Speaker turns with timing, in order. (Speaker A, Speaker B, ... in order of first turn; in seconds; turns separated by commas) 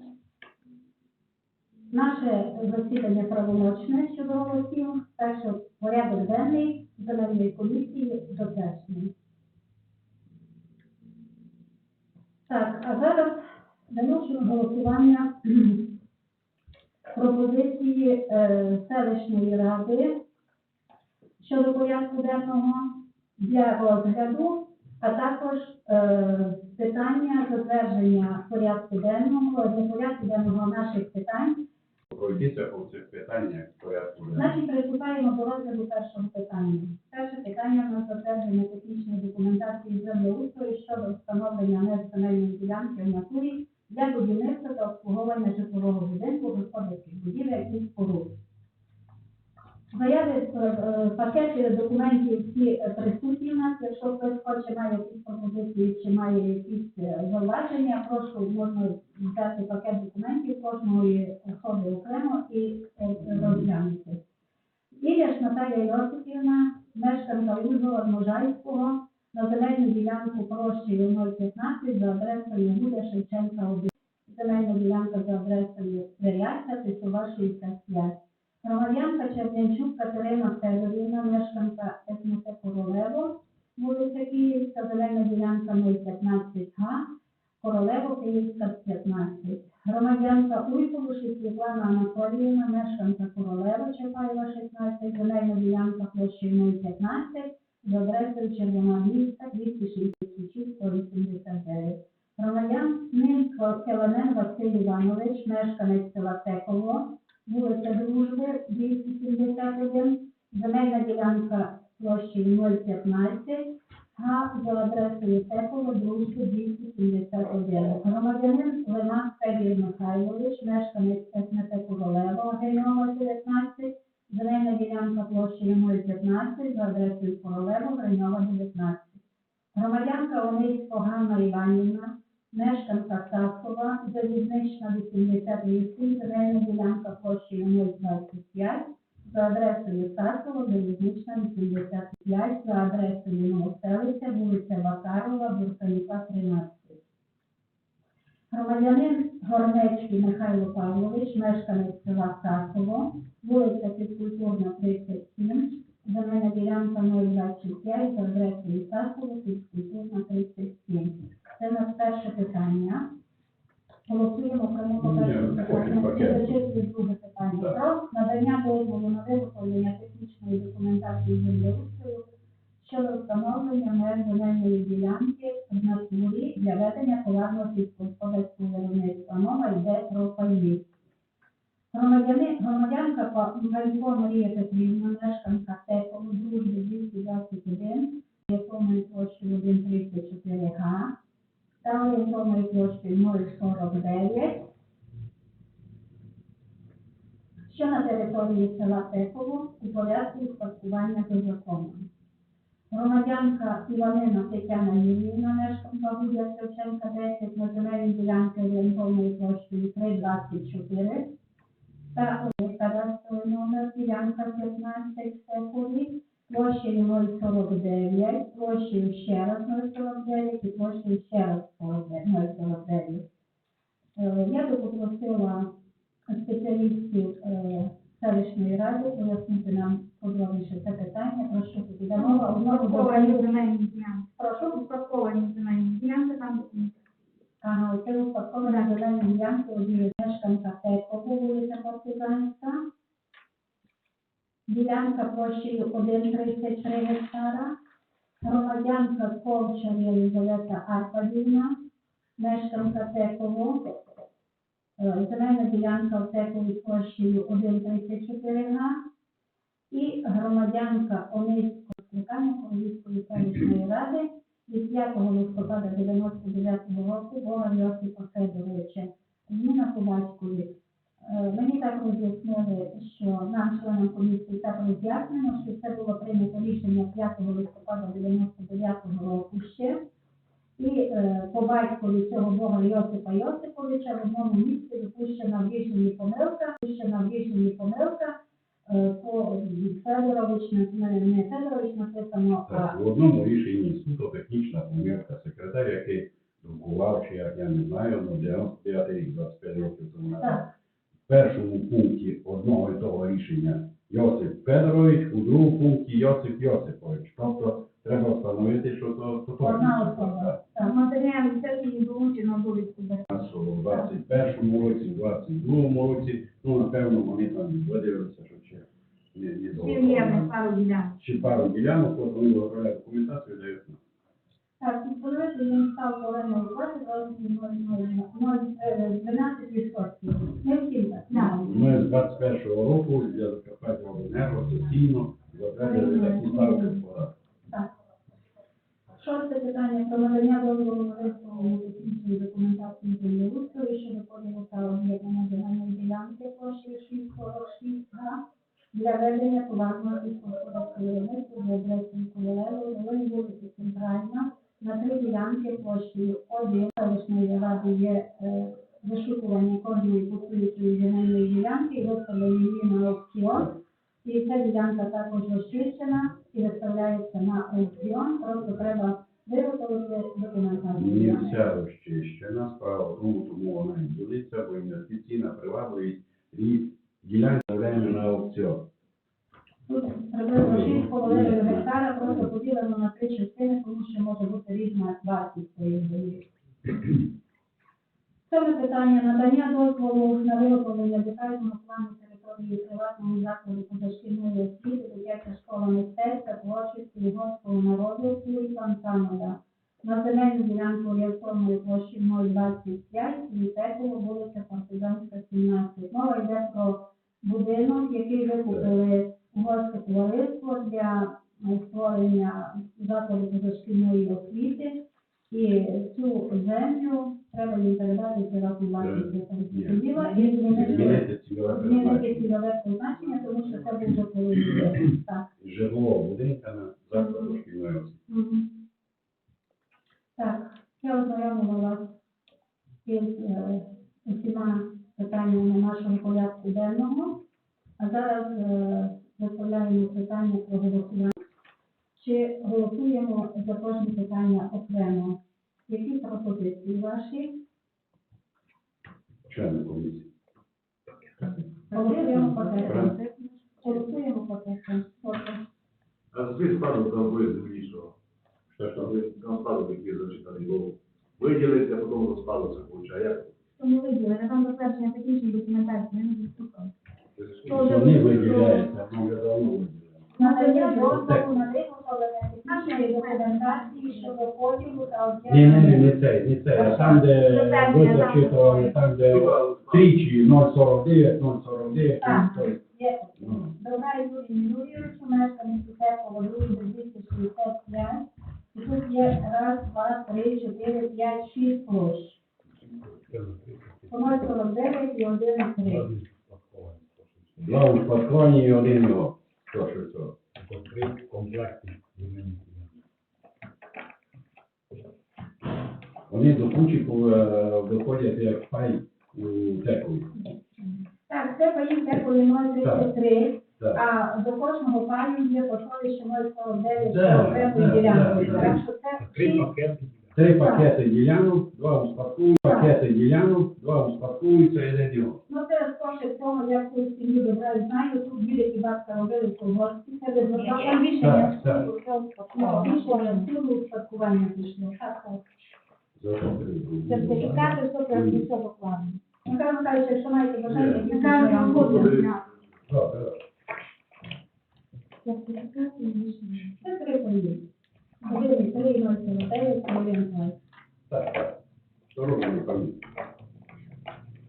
Speaker A: 1.9-9.1, Speaker A: 12.5-16.0, Speaker A: 17.1-20.2, Speaker A: 21.4-31.7, Speaker B: 32.1-34.5, Speaker A: 34.3-48.4, Speaker A: 49.9-64.2, Speaker A: 65.0-87.1, Speaker A: 87.6-129.2, Speaker A: 129.7-147.0, Speaker A: 148.5-163.1, Speaker A: 164.1-172.3, Speaker B: 165.0-166.5, Speaker A: 172.8-180.8, Speaker A: 181.9-191.1, Speaker A: 191.8-194.7, Speaker A: 197.7-202.1, Speaker A: 202.9-211.3, Speaker A: 212.1-223.2, Speaker A: 224.2-225.7, Speaker A: 226.3-233.6, Speaker C: 232.2-236.9, Speaker A: 237.6-242.8, Speaker C: 238.6-238.9, Speaker A: 244.7-247.7, Speaker A: 248.4-251.7, Speaker A: 252.4-253.9, Speaker A: 255.0-259.0, Speaker A: 259.9-280.0, Speaker A: 280.8-288.3, Speaker A: 288.9-293.0, Speaker B: 292.7-300.7, Speaker A: 300.4-300.7, Speaker B: 301.3-310.6, Speaker A: 309.6-310.9, Speaker C: 310.8-313.2, Speaker B: 313.3-320.5, Speaker C: 319.7-321.1, Speaker B: 321.2-324.0, Speaker A: 324.8-331.9, Speaker B: 331.6-337.3, Speaker A: 335.8-337.0, Speaker A: 339.2-348.4, Speaker A: 348.9-371.6, Speaker B: 370.9-378.9, Speaker A: 379.9-386.5, Speaker B: 380.6-381.9, Speaker A: 388.5-425.5, Speaker B: 419.0-422.4, Speaker B: 425.6-428.2, Speaker A: 430.4-432.2, Speaker A: 433.1-437.4, Speaker A: 438.0-441.3, Speaker A: 442.2-447.6, Speaker B: 449.5-450.3, Speaker A: 451.9-453.2, Speaker C: 451.9-455.3, Speaker B: 452.9-453.1, Speaker A: 453.8-454.1, Speaker A: 455.1-455.6, Speaker D: 456.3-458.1, Speaker B: 458.8-459.1, Speaker D: 458.8-463.5, Speaker C: 463.8-466.9, Speaker D: 467.4-468.3, Speaker B: 467.7-470.3, Speaker C: 467.7-468.9, Speaker C: 470.4-471.2, Speaker A: 470.4-476.2, Speaker B: 471.1-471.5, Speaker C: 472.6-474.4, Speaker B: 475.5-482.8, Speaker C: 477.0-478.9, Speaker D: 479.3-480.1, Speaker A: 482.2-492.4, Speaker B: 483.4-483.7, Speaker D: 493.3-493.9, Speaker A: 494.1-496.1, Speaker D: 496.1-497.2, Speaker B: 497.6-502.6, Speaker D: 501.4-502.4, Speaker B: 506.3-510.4, Speaker A: 511.3-519.7, Speaker B: 512.8-513.1, Speaker B: 517.0-518.8, Speaker D: 519.2-520.2, Speaker B: 520.4-525.4, Speaker A: 520.6-520.9, Speaker A: 522.6-522.9, Speaker A: 525.5-531.5, Speaker C: 530.6-533.5, Speaker B: 531.2-531.9, Speaker A: 532.5-535.4, Speaker B: 536.2-538.5, Speaker C: 537.1-539.2, Speaker A: 539.4-542.2, Speaker D: 540.7-541.0, Speaker C: 541.0-542.4, Speaker D: 541.7-542.4, Speaker B: 542.9-543.4, Speaker C: 545.2-546.8, Speaker A: 546.8-547.6, Speaker A: 548.2-550.6, Speaker B: 551.1-551.6, Speaker B: 552.1-553.0